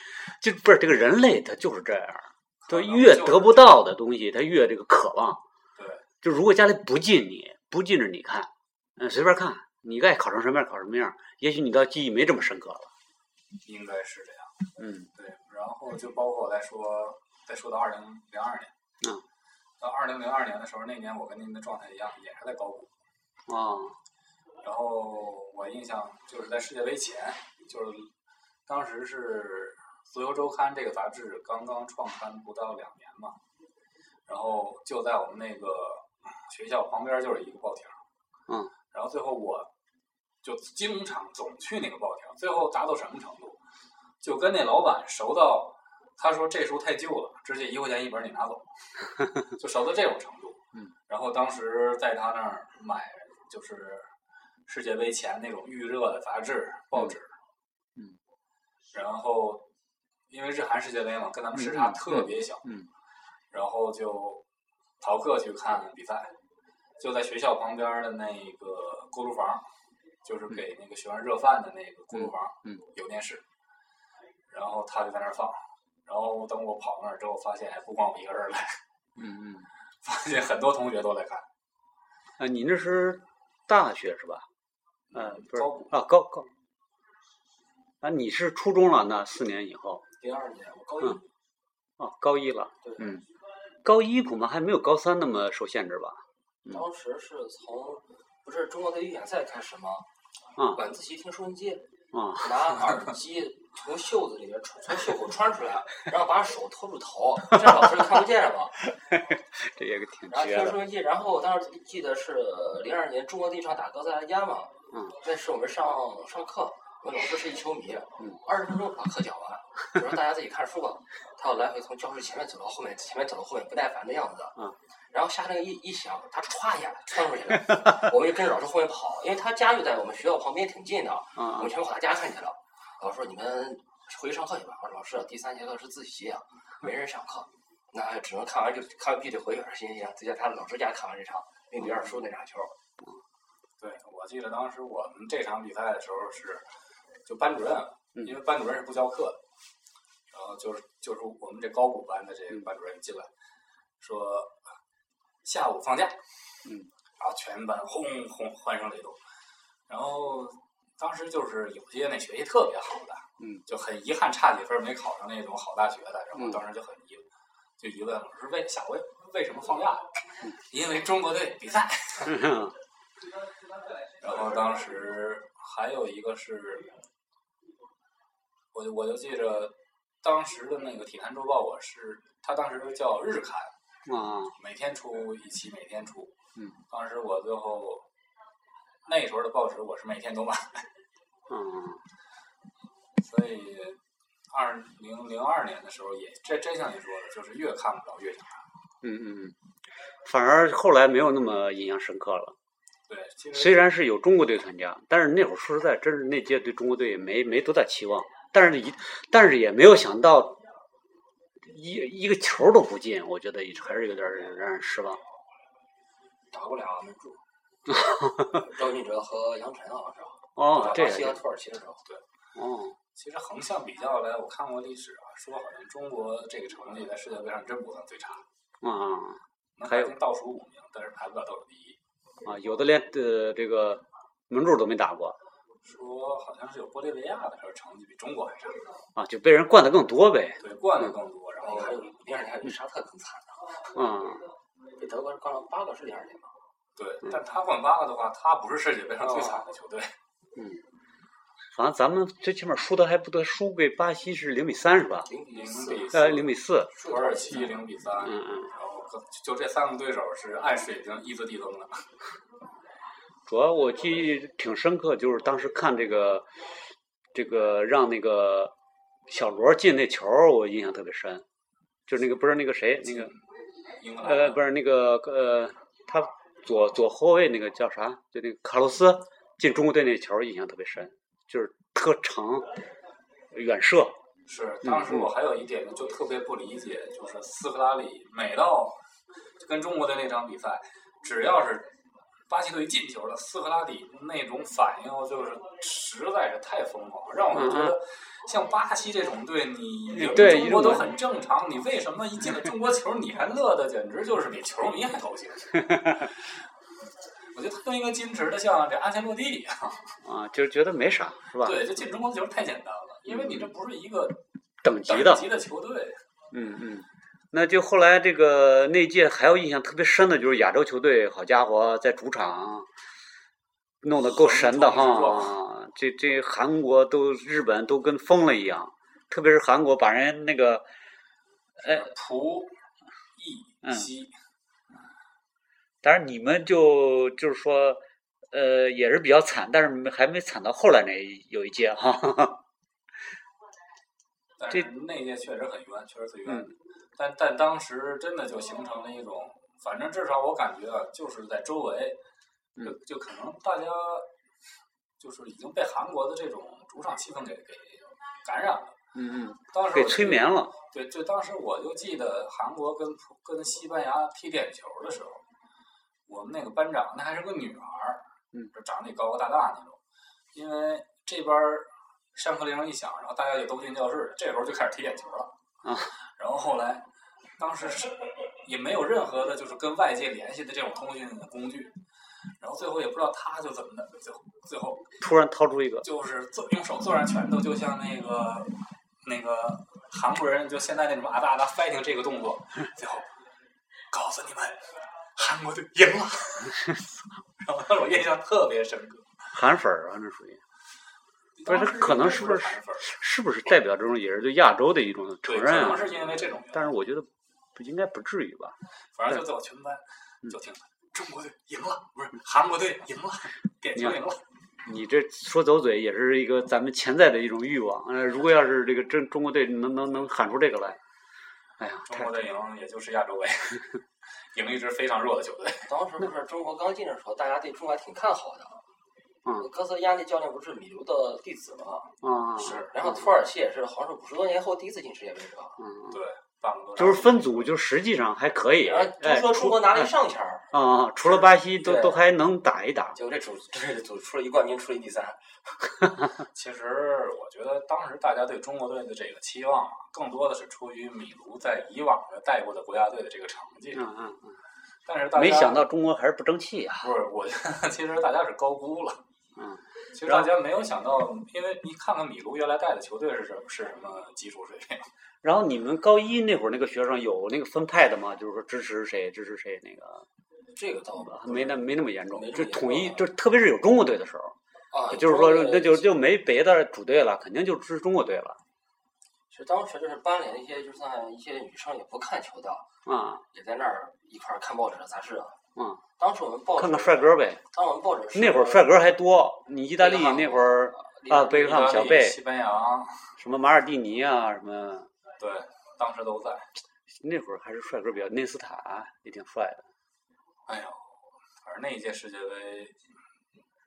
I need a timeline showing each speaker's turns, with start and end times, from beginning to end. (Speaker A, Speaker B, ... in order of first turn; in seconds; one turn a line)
Speaker A: 0.2-5.4
Speaker B: 2.6-3.7
Speaker B: 5.8-6.1
Speaker A: 6.2-12.9
Speaker B: 13.7-14.6
Speaker A: 14.8-15.1
Speaker B: 15.2-18.7
Speaker B: 19.8-22.9
Speaker A: 23.5-24.0
Speaker B: 24.6-28.1
Speaker B: 28.7-33.4
Speaker B: 34.3-38.0
Speaker A: 38.5-38.7
Speaker B: 38.9-39.7
Speaker B: 40.4-43.6
Speaker B: 44.2-48.7
Speaker B: 49.4-54.1
Speaker B: 54.7-57.4
Speaker B: 58.9-59.7
Speaker B: 60.3-62.7
Speaker A: 61.5-62.9
Speaker B: 63.5-64.4
Speaker B: 65.0-66.3
Speaker B: 67.0-69.7
Speaker B: 70.2-73.4
Speaker A: 72.2-72.8
Speaker B: 74.5-78.8
Speaker A: 79.2-79.7
Speaker B: 80.0-81.5
Speaker A: 82.4-84.5
Speaker B: 85.1-85.9
Speaker A: 85.1-86.5
Speaker A: 88.0-90.0
Speaker C: 90.2-91.2
Speaker A: 92.0-93.2
Speaker C: 92.8-93.2
Speaker A: 93.8-96.8
Speaker C: 96.7-100.1
Speaker C: 100.6-101.9
Speaker A: 102.1-103.0
Speaker C: 102.4-108.8
Speaker A: 107.6-108.0
Speaker A: 108.8-110.8
Speaker C: 110.3-124.6
Speaker C: 125.1-142.7
Speaker A: 131.4-131.7
Speaker B: 143.8-146.7
Speaker B: 147.3-149.4
Speaker B: 150.3-153.3
Speaker B: 154.0-154.6
Speaker B: 155.4-156.2
Speaker A: 156.7-156.9
Speaker B: 157.2-159.2
Speaker B: 159.9-167.3
Speaker A: 163.4-163.6
Speaker A: 166.3-166.6
Speaker B: 167.8-172.5
Speaker A: 172.2-172.8
Speaker B: 174.2-176.9
Speaker B: 178.7-183.7
Speaker A: 184.1-184.6
Speaker B: 184.6-186.3
Speaker B: 186.9-188.1
Speaker B: 189.1-190.9
Speaker A: 191.5-192.0
Speaker B: 193.2-194.0
Speaker B: 194.5-198.7
Speaker A: 199.0-199.6
Speaker A: 200.2-202.6
Speaker B: 203.1-204.0
Speaker A: 203.5-210.6
Speaker A: 211.6-215.2
Speaker C: 216.5-217.4
Speaker A: 217.9-218.6
Speaker C: 218.5-222.0
Speaker A: 220.6-221.4
Speaker B: 220.7-221.2
Speaker A: 222.6-223.0
Speaker B: 223.2-228.4
Speaker A: 228.8-230.2
Speaker B: 229.8-232.0
Speaker A: 232.4-235.4
Speaker B: 235.8-238.9
Speaker A: 239.2-241.1
Speaker B: 240.6-242.1
Speaker C: 241.6-243.9
Speaker A: 243.9-244.5
Speaker C: 245.0-246.5
Speaker B: 247.0-250.1
Speaker C: 249.2-249.7
Speaker A: 250.6-250.8
Speaker A: 251.7-255.3
Speaker C: 255.2-256.3
Speaker B: 255.5-262.1
Speaker A: 256.1-256.9
Speaker C: 257.0-257.7
Speaker A: 258.2-258.7
Speaker A: 263.5-266.5
Speaker A: 267.3-268.7
Speaker A: 269.3-271.5
Speaker A: 272.1-273.3
Speaker B: 273.0-273.4
Speaker B: 274.0-274.6
Speaker A: 274.2-282.8
Speaker A: 283.5-284.1
Speaker B: 284.5-289.0
Speaker A: 284.8-285.3
Speaker B: 289.6-291.9
Speaker B: 292.5-306.5
Speaker A: 297.5-298.0
Speaker A: 300.1-301.1
Speaker A: 305.8-306.3
Speaker B: 307.5-310.1
Speaker A: 310.2-311.9
Speaker B: 311.6-314.4
Speaker A: 313.3-313.7
Speaker A: 314.8-315.5
Speaker B: 315.1-316.2
Speaker A: 316.5-322.9
Speaker A: 324.0-330.9
Speaker B: 324.1-325.6
Speaker B: 331.8-332.7
Speaker B: 333.4-334.3
Speaker A: 333.8-334.1
Speaker A: 336.0-342.6
Speaker B: 344.6-352.2
Speaker A: 346.5-346.7
Speaker B: 352.8-354.3
Speaker B: 355.2-359.0
Speaker A: 359.1-360.7
Speaker B: 359.7-365.4
Speaker B: 366.3-370.0
Speaker B: 370.5-375.5
Speaker A: 375.8-376.1
Speaker B: 376.4-377.1
Speaker B: 377.6-381.9
Speaker B: 382.6-385.1
Speaker A: 385.2-386.1
Speaker B: 386.0-393.3
Speaker B: 394.1-397.0
Speaker B: 397.6-399.5
Speaker A: 399.5-400.6
Speaker B: 401.6-403.1
Speaker A: 401.7-408.8
Speaker B: 405.5-406.9
Speaker B: 409.2-414.4
Speaker A: 414.9-421.0
Speaker A: 421.8-422.4
Speaker B: 422.1-424.0
Speaker B: 424.5-425.9
Speaker C: 425.8-428.8
Speaker C: 429.5-435.8
Speaker A: 432.2-433.2
Speaker B: 432.6-432.9
Speaker A: 435.8-436.2
Speaker B: 436.1-437.7
Speaker A: 437.0-440.1
Speaker C: 438.8-440.7
Speaker A: 440.7-443.2
Speaker C: 441.2-442.2
Speaker C: 443.1-445.8
Speaker B: 446.5-454.1
Speaker A: 453.9-454.6
Speaker B: 455.1-455.9
Speaker A: 455.3-457.1
Speaker B: 457.0-459.2
Speaker A: 459.6-460.5
Speaker B: 460.1-465.1
Speaker A: 465.4-470.3
Speaker C: 470.8-473.3
Speaker A: 471.2-474.6
Speaker C: 474.9-476.1
Speaker A: 475.1-478.6
Speaker C: 479.5-482.9
Speaker A: 483.1-483.4
Speaker C: 483.5-485.6
Speaker A: 485.8-486.0
Speaker C: 486.2-488.9
Speaker A: 486.8-487.6
Speaker A: 488.3-492.4
Speaker C: 490.0-491.7
Speaker B: 491.3-493.4
Speaker A: 493.4-495.1
Speaker B: 495.4-496.7
Speaker A: 497.2-499.9
Speaker B: 500.7-503.1